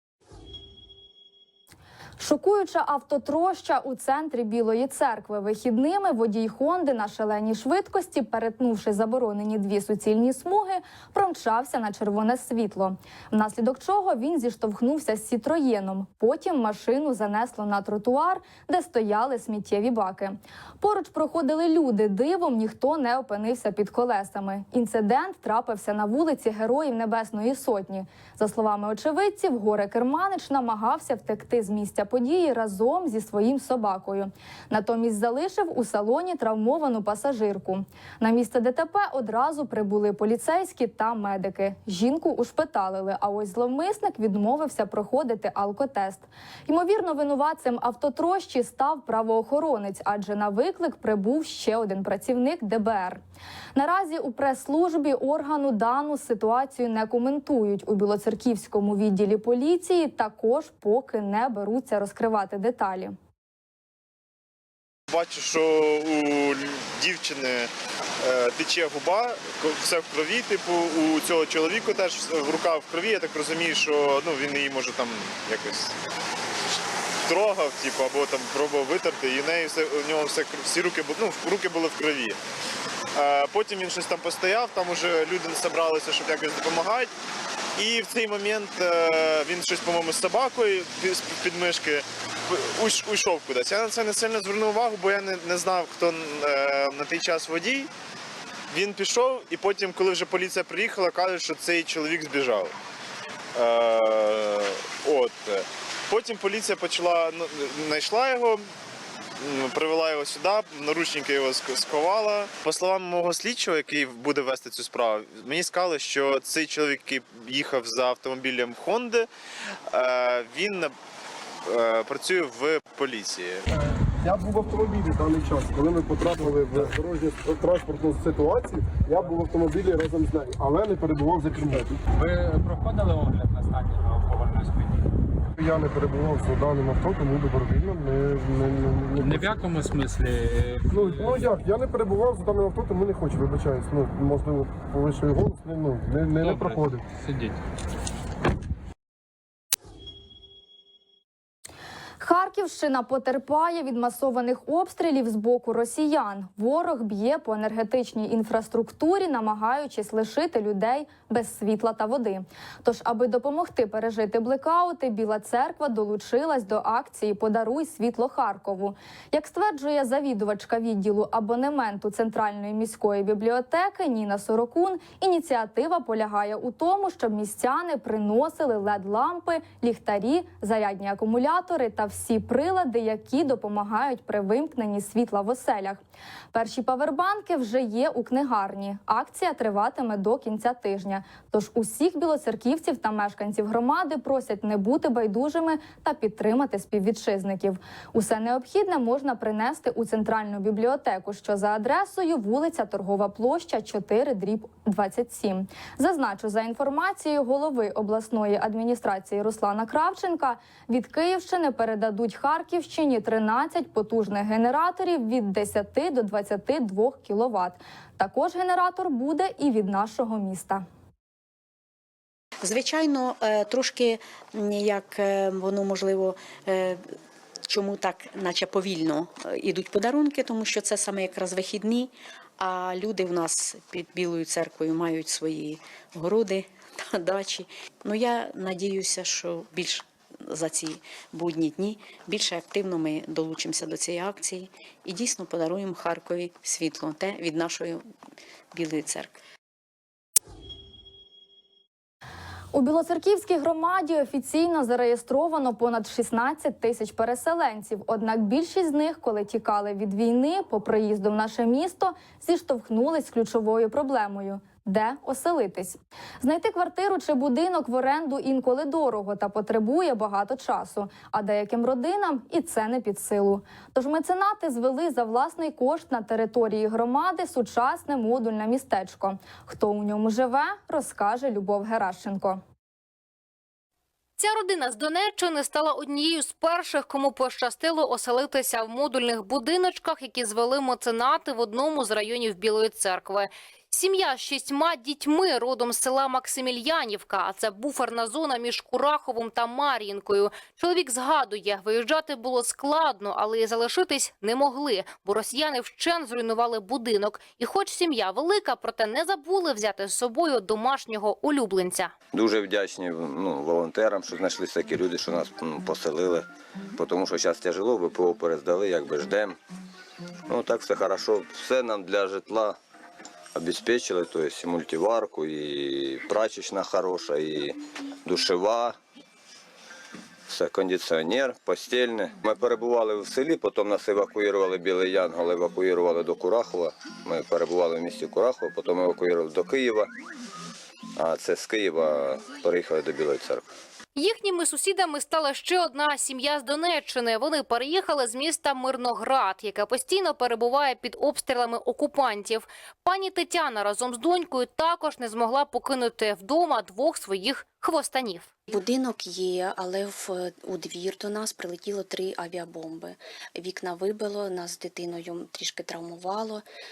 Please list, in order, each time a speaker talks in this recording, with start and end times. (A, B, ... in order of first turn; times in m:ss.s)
0:02.2-0:53.2 A
0:53.7-1:03.2 A
1:05.1-1:07.7 B
1:08.2-1:15.9 B
1:17.2-1:22.4 B
1:23.1-1:27.1 B
1:27.8-1:37.9 B
1:38.7-1:42.7 B
1:43.5-1:48.6 B
1:49.4-1:59.3 B
1:59.9-2:00.9 B
2:01.7-2:03.6 B
2:03.8-2:12.0 C
2:12.2-2:14.9 D
2:15.6-2:19.7 C
2:19.2-2:21.4 D
2:20.9-2:27.1 C
2:26.4-2:27.5 D
2:32.2-3:06.0 A
3:06.5-3:40.8 A
3:42.6-3:47.0 E
3:47.7-4:08.0 E
4:08.7-4:09.4 E
4:12.7-4:42.6 A
4:44.4-5:12.1 F
5:12.3-5:19.6 G
5:20.5-5:22.8 G
5:23.6-5:29.0 G
5:30.5-5:40.1 G
5:41.2-5:43.6 G
5:44.2-5:58.5 F
5:58.7-6:06.6 H